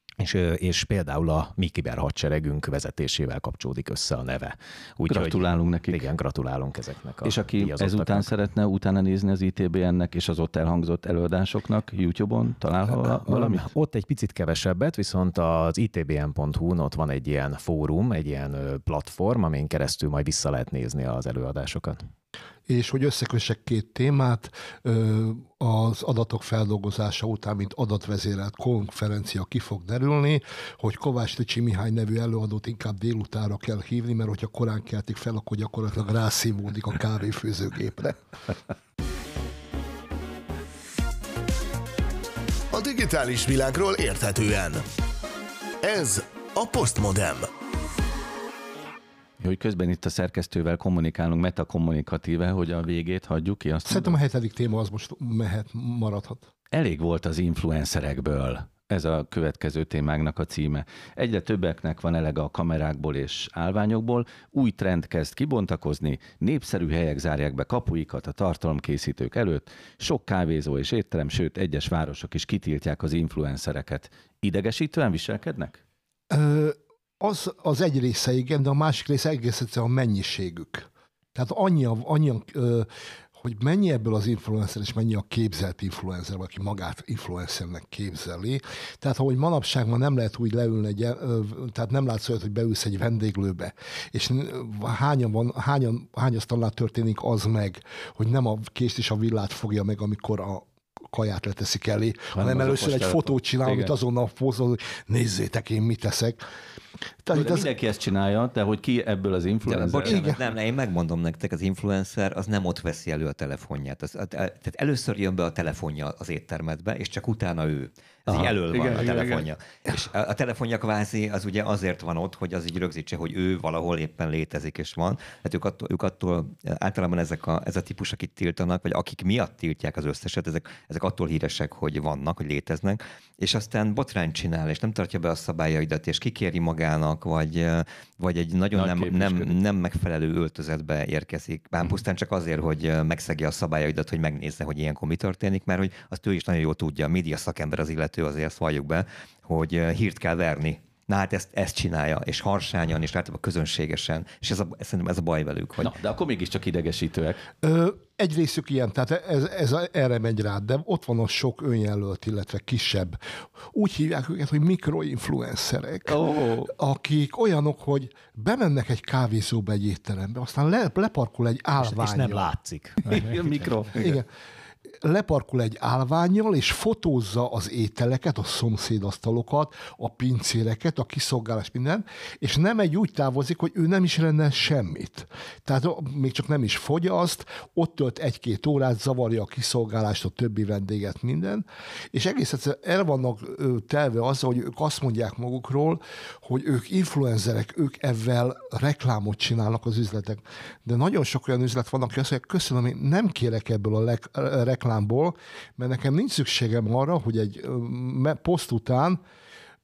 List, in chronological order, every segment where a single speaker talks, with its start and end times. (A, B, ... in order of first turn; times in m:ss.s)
0:00.2-0:08.3 A
0:05.1-0:06.0 B
0:07.2-0:13.7 B
0:12.9-0:22.0 A
0:22.7-0:38.3 C
0:42.7-0:44.8 D
0:45.8-0:47.5 D
0:49.4-0:54.2 B
0:53.9-0:56.4 C
0:56.7-1:15.8 B
1:16.3-1:22.9 C
1:23.4-1:46.4 C
1:42.3-1:43.9 B
1:47.2-1:47.7 C
1:47.3-1:50.2 B
1:49.7-2:35.9 E
1:50.0-1:50.4 C
1:58.3-1:59.5 B
2:18.7-2:19.6 B
2:35.8-2:37.4 B
2:37.6-2:43.2 C
2:43.7-2:52.4 C
2:46.0-2:46.7 B
2:51.8-2:53.7 A
2:53.1-2:54.2 B
2:54.0-2:54.3 C
2:55.0-3:29.2 C